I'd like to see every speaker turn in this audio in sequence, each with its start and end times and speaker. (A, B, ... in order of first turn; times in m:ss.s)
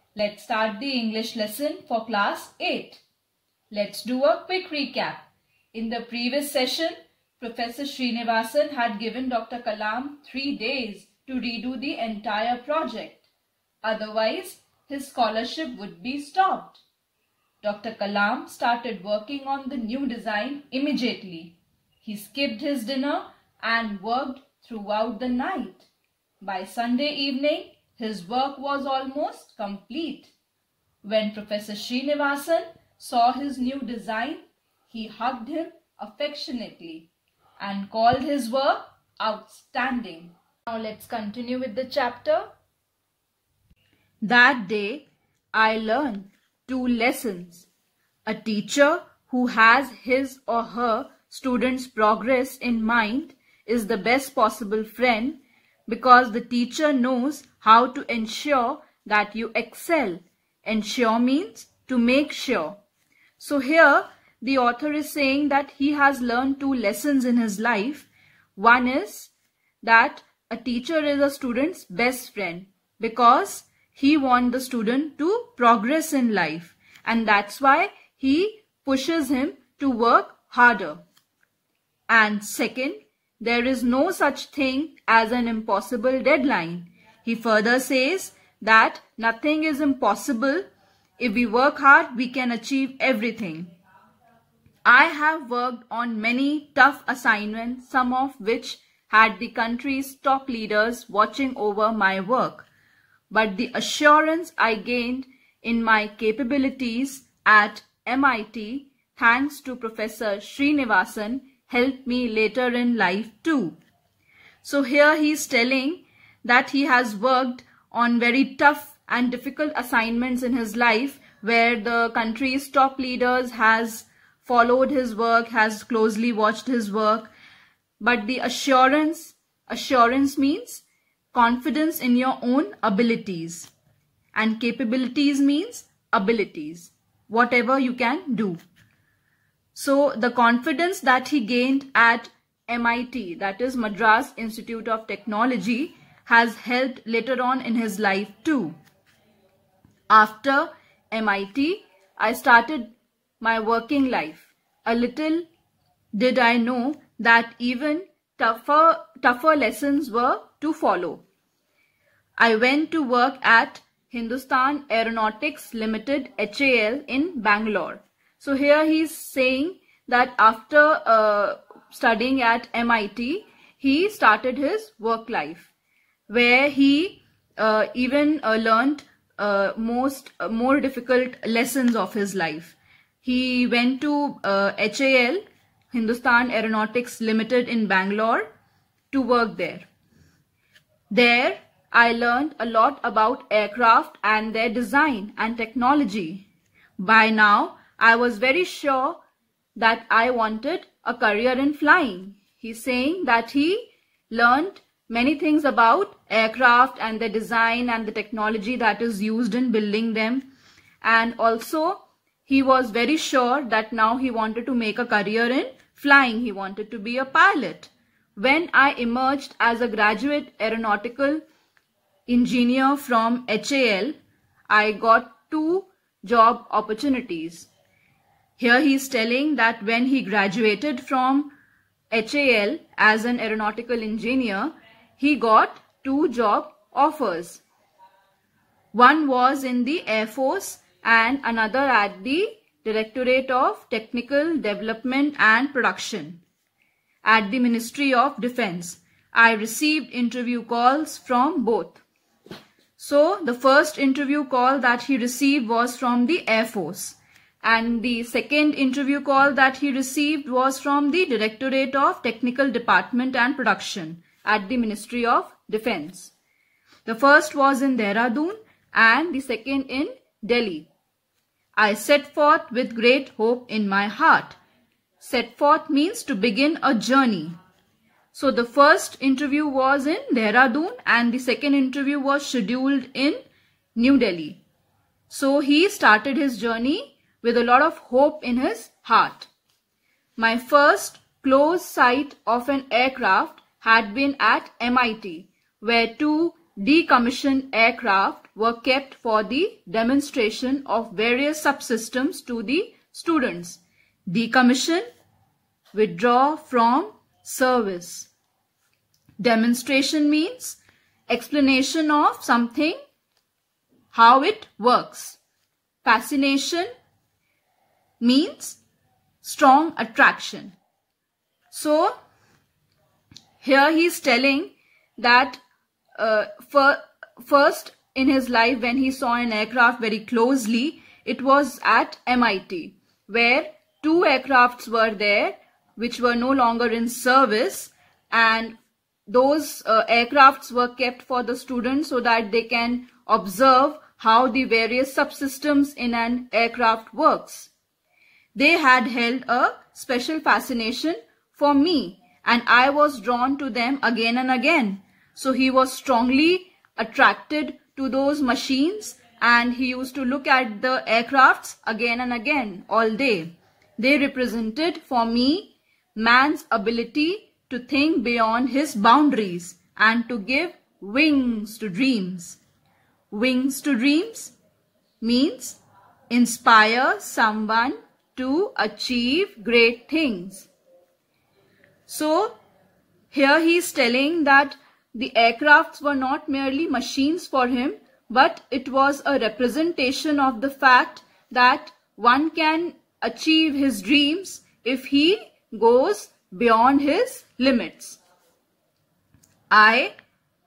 0:00.2-0:03.0 A
0:03.7-0:13.3 A
0:13.8-0:16.8 A
0:17.6-0:25.9 A
0:26.4-0:30.3 A
0:31.0-0:42.5 A
0:44.2-0:47.7 A
0:48.3-1:02.8 A
1:03.4-1:21.0 A
1:22.1-1:30.6 A
1:31.2-1:33.7 A
1:34.8-1:42.7 A
1:43.3-1:53.8 A
1:54.6-2:07.3 A
2:08.0-2:13.7 A
2:14.4-2:18.6 A
2:19.7-2:28.8 A
2:30.1-2:35.5 A
2:36.1-2:41.2 A
2:42.4-2:55.7 A
2:56.3-3:08.5 A
3:09.1-3:09.9 A
3:11.1-3:16.5 A
3:17.0-3:19.2 A
3:19.8-3:30.5 A
3:31.0-3:41.4 A
3:42.3-3:44.2 A
3:44.7-3:47.7 A
3:48.6-3:51.5 A
3:52.1-3:57.6 A
3:58.9-4:06.4 A
4:07.2-4:12.0 A
4:13.0-4:26.3 A
4:27.1-4:30.9 A
4:31.8-4:34.6 A
4:35.2-4:37.6 A
4:38.3-4:43.4 A
4:44.0-4:44.6 A
4:45.3-4:49.5 A
4:50.4-5:05.0 A
5:05.9-5:08.3 A
5:09.4-5:13.0 A
5:14.1-5:15.4 A
5:16.0-5:16.9 A
5:18.2-5:18.8 A
5:19.4-5:20.8 A
5:21.7-5:22.1 A
5:23.6-5:25.6 A
5:26.2-5:47.7 A
5:48.5-6:12.6 A
6:13.3-6:14.5 A
6:15.2-6:20.7 A
6:22.1-6:22.6 A
6:23.3-6:38.2 A
6:39.7-6:40.1 A